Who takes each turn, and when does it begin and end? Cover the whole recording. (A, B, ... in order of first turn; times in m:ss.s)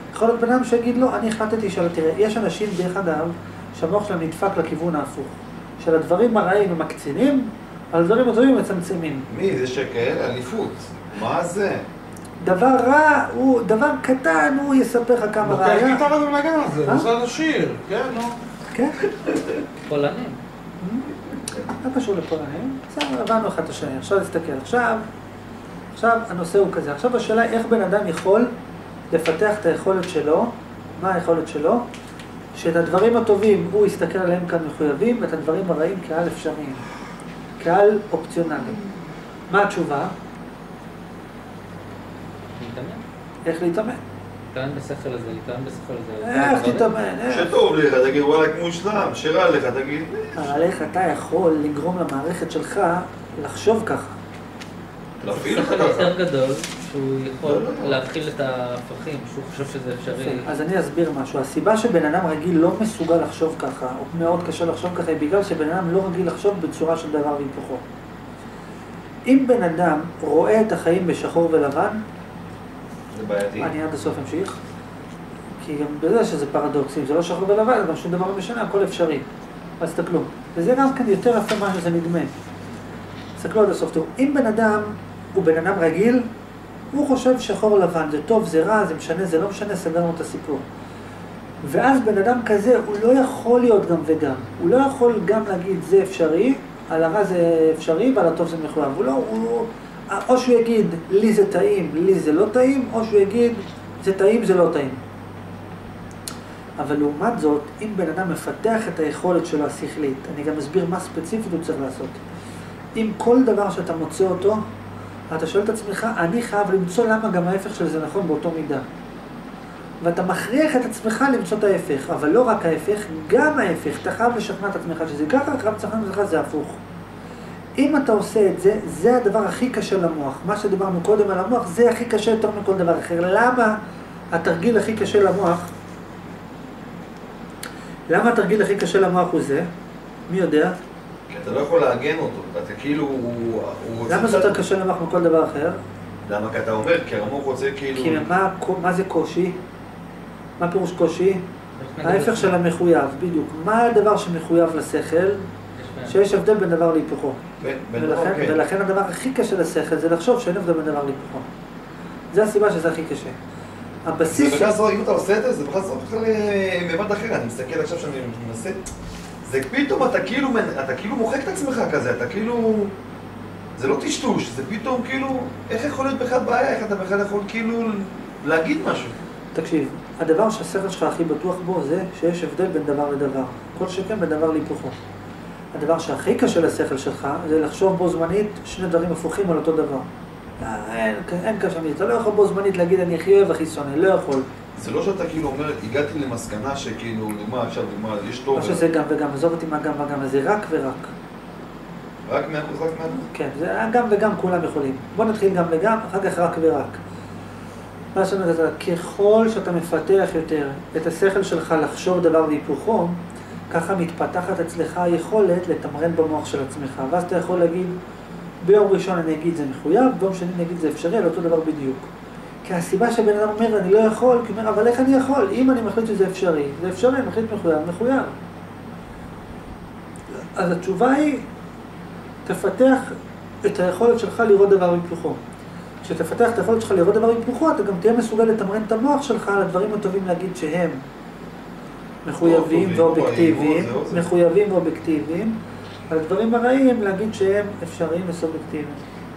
0:00.1-0:09.3 A
0:09.3-0:11.8 B
0:12.4-0:16.0 A
0:15.4-0:18.4 C
0:18.7-0:19.1 A
0:19.9-0:20.4 D
0:20.8-0:21.1 A
0:21.7-0:25.0 A
0:25.9-0:28.5 A
0:29.1-0:31.8 A
0:32.5-0:36.8 A
0:37.6-0:38.8 A
0:39.5-0:40.1 A
0:42.6-0:43.0 D
0:43.4-0:44.0 A
0:44.5-0:46.9 D
0:46.2-0:47.5 A
0:47.3-0:50.9 B
0:50.4-0:54.2 A
0:55.2-0:56.1 B
0:55.2-1:00.5 D
0:57.4-0:58.0 B
1:00.1-1:07.8 A
1:09.2-1:12.0 A
1:13.1-1:13.7 B
1:13.6-1:14.6 A
1:15.6-1:19.2 A
1:19.8-1:22.3 A
1:23.4-1:26.3 A
1:26.9-1:30.6 A
1:31.6-1:45.0 A
1:46.8-1:52.2 A
1:52.9-1:54.6 A
1:55.3-1:58.8 A
2:00.0-2:06.8 A
2:07.8-2:13.8 A
2:14.3-2:15.7 A
2:18.1-2:19.7 A
2:20.3-2:20.8 A
2:21.3-2:24.6 B
2:24.1-2:25.8 A
2:26.2-2:28.3 B
2:27.9-2:29.6 A
2:30.6-2:31.4 A
2:31.8-2:32.5 D
2:32.0-2:35.4 A
2:35.8-2:36.2 D
2:36.1-2:41.5 A
2:37.6-2:38.6 B
2:42.3-2:43.4 A
2:44.0-2:44.8 A
2:44.3-2:48.8 B
2:49.4-2:52.9 B
2:53.8-2:59.2 B
2:59.5-3:05.0 A
3:05.7-3:10.1 A
3:10.6-3:14.5 A
3:14.7-3:18.8 B
3:18.5-3:21.1 A
3:22.2-3:23.2 B
3:23.2-3:27.0 A
3:28.1-3:37.9 A
3:38.6-3:42.1 A
3:42.6-3:48.4 A
3:50.4-3:51.4 A
3:52.4-3:55.4 A
3:56.0-4:01.0 A
4:02.2-4:05.6 A
4:02.4-4:04.3 B
4:06.1-4:09.0 A